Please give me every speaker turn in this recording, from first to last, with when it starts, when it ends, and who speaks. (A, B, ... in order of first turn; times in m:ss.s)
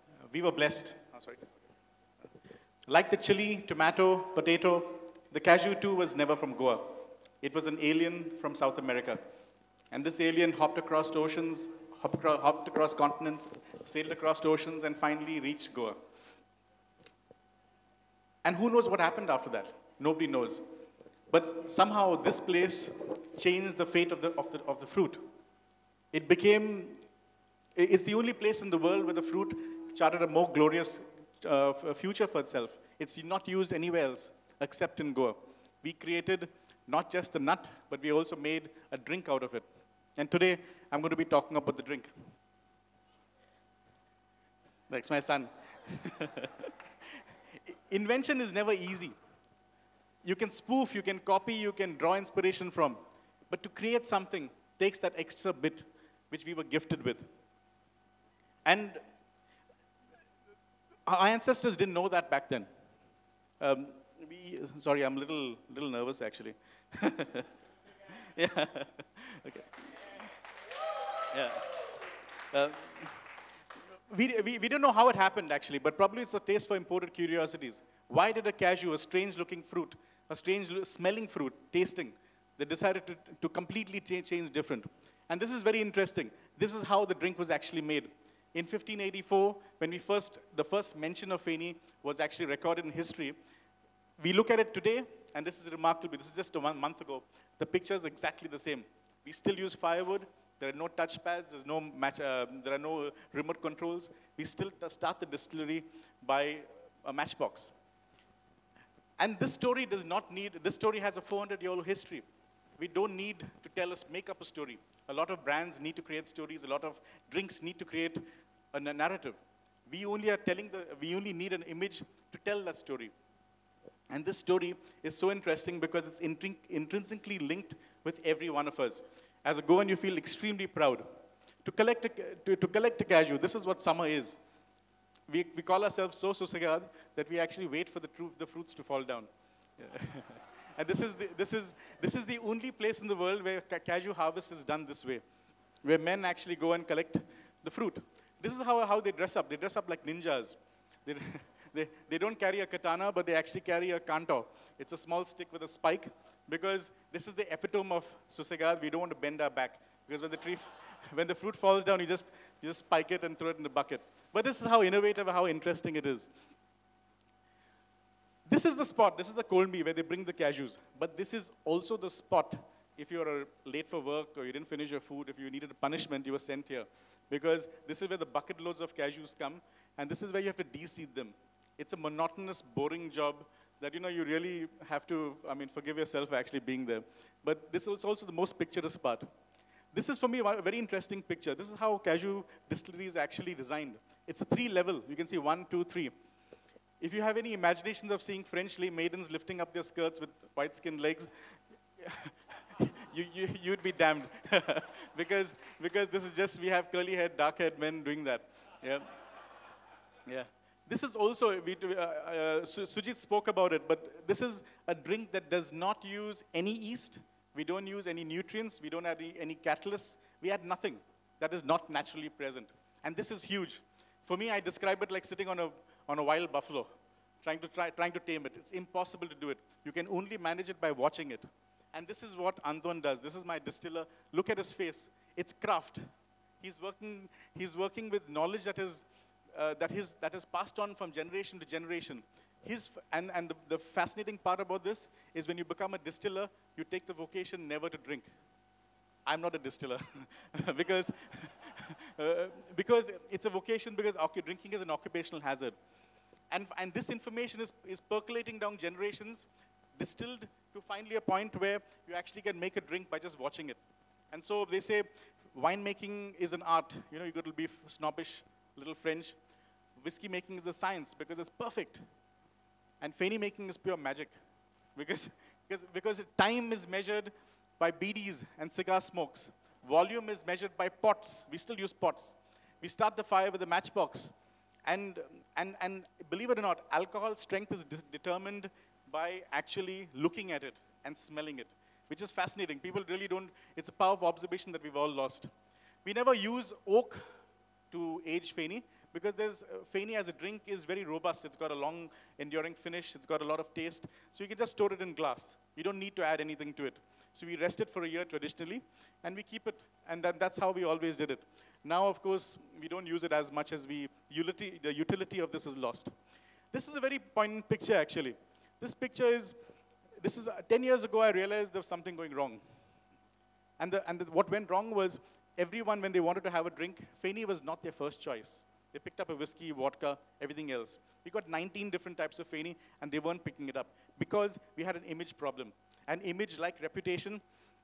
0:00.3-0:01.5 A
0:02.9-0:09.2 A
0:09.9-0:16.0 A
0:18.4-0:20.6 A
0:21.3-0:25.2 A
0:26.1-0:27.0 A
0:27.8-0:39.7 A
0:40.2-0:42.1 A
0:44.9-0:46.7 A
0:47.7-0:49.2 A
0:50.2-0:57.3 A
0:58.7-0:59.0 A
1:01.1-1:02.7 A
1:03.6-1:07.5 A
1:08.1-1:10.3 A
1:11.2-1:11.9 A
1:12.5-1:13.2 A
1:14.1-1:33.4 A
1:34.2-1:47.7 A
1:49.2-1:52.2 A
1:52.8-2:03.1 A
2:04.1-2:11.1 A
2:11.6-2:14.4 A
2:15.3-2:25.2 A
2:25.8-2:46.3 A
2:48.5-3:09.3 A
3:09.9-3:16.1 A
3:17.0-3:29.1 A
3:30.3-3:56.0 A
3:56.6-4:08.3 A
4:09.3-4:15.8 A
4:16.5-4:23.8 A
4:24.3-4:29.4 A
4:30.0-4:32.0 A
4:33.0-4:34.4 A
4:35.0-4:44.3 A
4:44.8-4:55.5 A
4:56.0-4:57.4 A
4:57.9-5:16.1 A
5:16.7-5:19.6 A
5:20.2-5:22.6 A
5:23.8-5:37.4 A